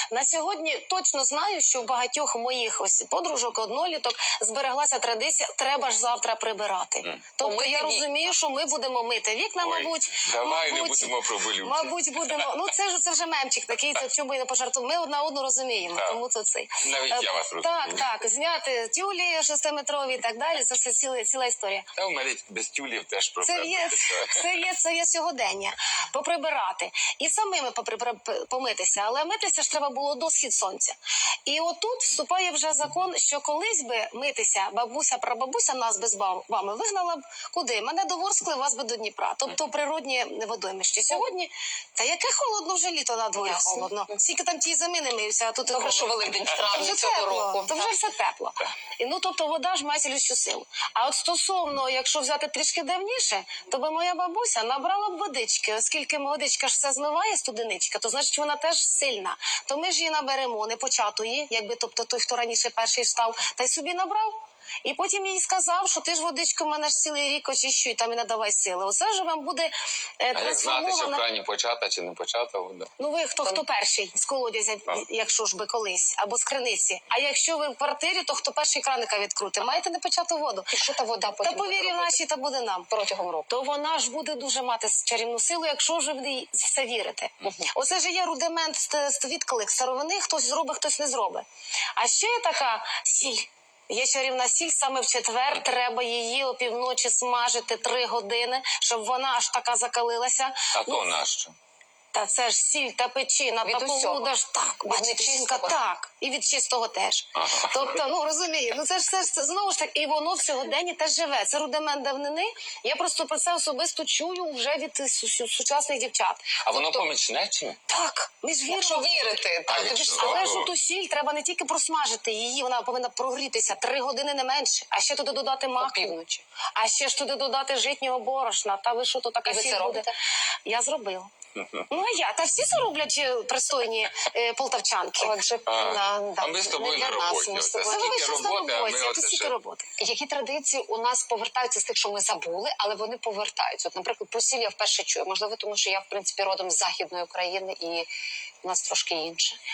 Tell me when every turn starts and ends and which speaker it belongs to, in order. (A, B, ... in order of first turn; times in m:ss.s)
0:00.1-0:21.9 A
0:07.4-0:08.1 B
0:09.6-0:12.6 C
0:16.8-0:18.1 C
0:22.0-0:24.6 C
0:23.4-1:11.2 A
0:43.4-0:44.2 B
0:45.7-0:48.1 B
1:10.3-1:12.9 C
1:13.0-1:20.7 A
1:20.7-1:22.2 B
1:21.4-1:22.9 A
1:22.9-1:23.5 B
1:23.5-1:41.1 A
1:27.4-1:27.7 B
1:40.7-1:41.6 C
1:42.1-1:56.6 A
1:43.6-1:45.8 B
1:47.4-1:48.0 C
1:56.6-1:57.8 C
1:56.8-1:57.0 B
1:57.9-1:59.3 A
1:58.7-2:00.7 B
1:59.7-2:00.7 C
2:00.1-2:06.2 A
2:05.8-2:06.4 B
2:06.8-2:10.1 A
2:09.4-2:10.2 B
2:10.6-2:11.3 A
2:11.6-2:11.9 C
2:11.9-2:15.3 A
2:15.2-2:18.4 B
2:15.7-2:19.5 C
2:17.8-2:19.9 A
2:20.0-2:28.1 B
2:28.6-2:29.6 B